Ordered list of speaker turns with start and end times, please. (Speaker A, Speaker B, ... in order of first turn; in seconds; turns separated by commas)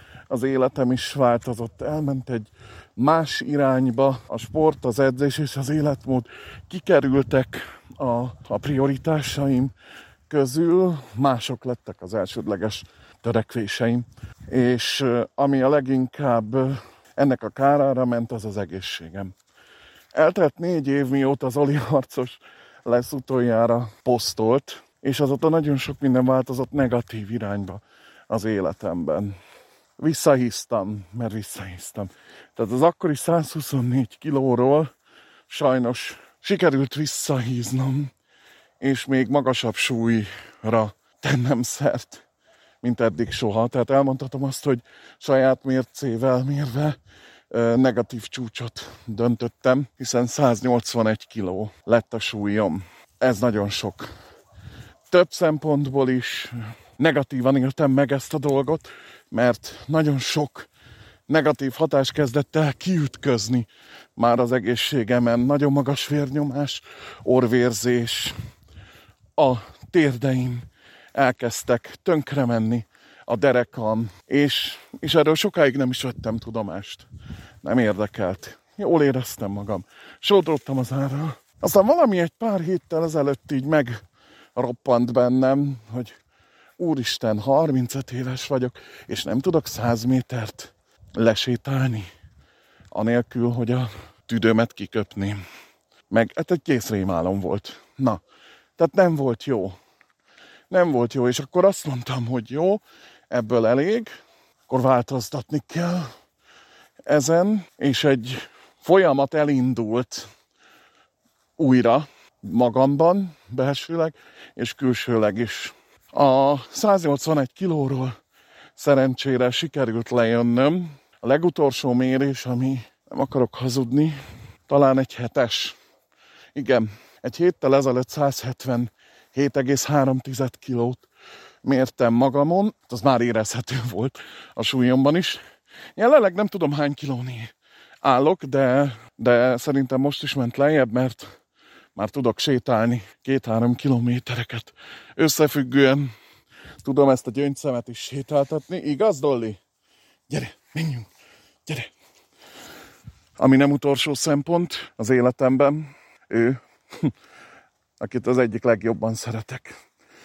Speaker A: 0.3-9.7, Speaker A: 10.3-19.3, Speaker A: 20.1-29.4, Speaker A: 30.0-34.9, Speaker A: 35.5-38.1, Speaker A: 38.8-42.2, Speaker A: 42.8-47.0, Speaker A: 47.5-54.1, Speaker A: 55.1-60.7, Speaker A: 61.3-68.3, Speaker A: 69.4-77.1, Speaker A: 77.6-84.0, Speaker A: 84.5-86.2, Speaker A: 86.8-92.1, Speaker A: 92.9-95.4, Speaker A: 96.1-98.2, Speaker A: 98.8-99.8, Speaker A: 100.7-104.1, Speaker A: 104.7-106.1, Speaker A: 107.1-110.3, Speaker A: 111.6-118.2, Speaker A: 118.8-124.2, Speaker A: 124.7-125.8, Speaker A: 126.5-131.1, Speaker A: 131.6-135.4, Speaker A: 136.0-137.5, Speaker A: 138.0-141.3, Speaker A: 141.9-146.1, Speaker A: 146.8-149.6, Speaker A: 150.3-151.1, Speaker A: 153.4-157.1, Speaker A: 158.0-159.8